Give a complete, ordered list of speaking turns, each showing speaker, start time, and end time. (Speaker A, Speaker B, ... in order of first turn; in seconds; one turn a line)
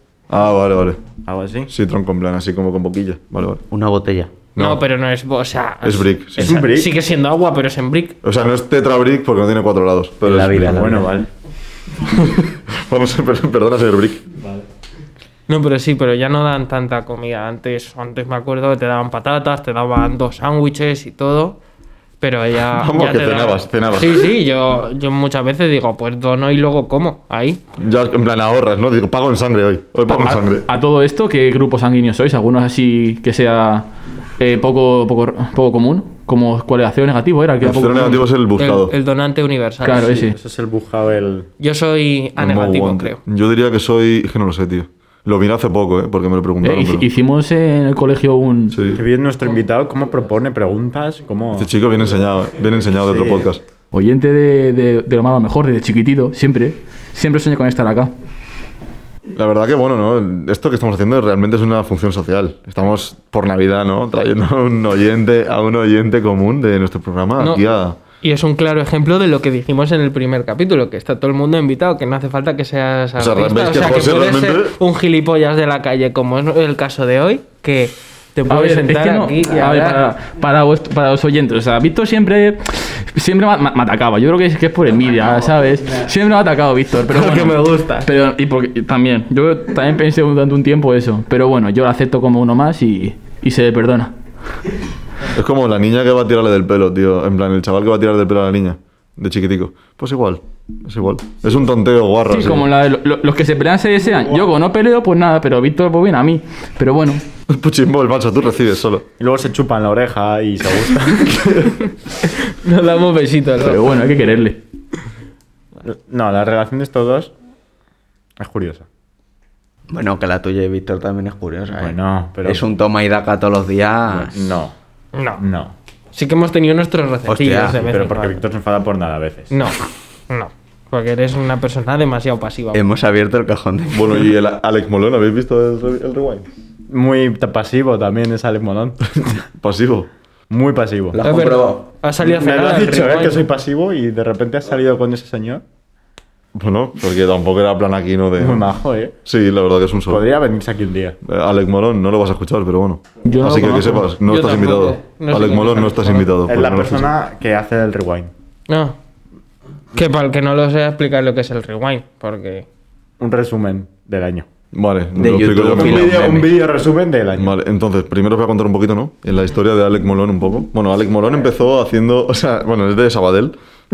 Speaker A: 0.3-1.0
Speaker B: 1.2-1.7
Speaker A: 1.7-3.6
Speaker C: 3.7-4.3
Speaker A: 4.5-4.8
Speaker D: 4.6-8.2
Speaker A: 5.8-6.6
Speaker B: 6.4-7.0
Speaker A: 8.2-11.0
Speaker C: 10.2-11.1
Speaker B: 10.6-11.3
Speaker A: 12.1-14.2
Speaker D: 15.5-21.6
Speaker D: 22.2-27.6
Speaker A: 22.7-24.3
Speaker A: 27.8-30.6
Speaker E: 30.1-33.9
Speaker E: 34.4-38.2
Speaker A: 37.6-38.9
Speaker D: 38.6-40.3
Speaker E: 39.8-40.4
Speaker B: 40.3-41.5
Speaker D: 41.6-43.2
Speaker A: 42.4-47.1
Speaker E: 46.6-48.8
Speaker A: 48.7-49.0
Speaker B: 48.9-51.7
Speaker A: 51.5-53.6
Speaker B: 53.0-53.5
Speaker E: 53.9-58.1
Speaker A: 59.3-68.0
Speaker D: 68.2-80.0
Speaker A: 73.2-74.8
Speaker E: 78.5-94.1
Speaker D: 87.1-88.0
Speaker A: 95.3-102.7
Speaker E: 102.3-107.2
Speaker A: 107.5-109.0
Speaker B: 109.2-111.7
Speaker A: 111.3-111.8
Speaker D: 112.5-113.8
Speaker E: 113.6-114.6
Speaker B: 115.8-117.3
Speaker B: 118.4-118.8
Speaker C: 119.9-124.3
Speaker B: 121.7-122.6
Speaker B: 124.1-124.7
Speaker D: 125.1-125.4
Speaker B: 125.4-125.7
Speaker D: 126.1-128.4
Speaker C: 127.3-127.8
Speaker B: 127.7-129.5
Speaker D: 129.5-132.8
Speaker C: 132.7-134.3
Speaker A: 133.9-136.5
Speaker B: 136.9-139.3
Speaker A: 139.6-140.1
Speaker B: 140.5-141.2
Speaker C: 141.1-141.9
Speaker D: 141.2-143.4
Speaker B: 142.2-145.6
Speaker A: 146.5-148.7
Speaker B: 148.4-149.1
Speaker A: 149.2-150.2
Speaker B: 150.1-151.2
Speaker A: 151.2-157.1
Speaker E: 153.2-154.1
Speaker D: 154.2-156.3
Speaker B: 156.4-158.3
Speaker D: 158.7-158.9
Speaker D: 159.9-162.7
Speaker B: 163.2-164.4
Speaker A: 164.7-166.4
Speaker C: 165.2-166.5
Speaker B: 165.5-167.5
Speaker A: 167.3-173.5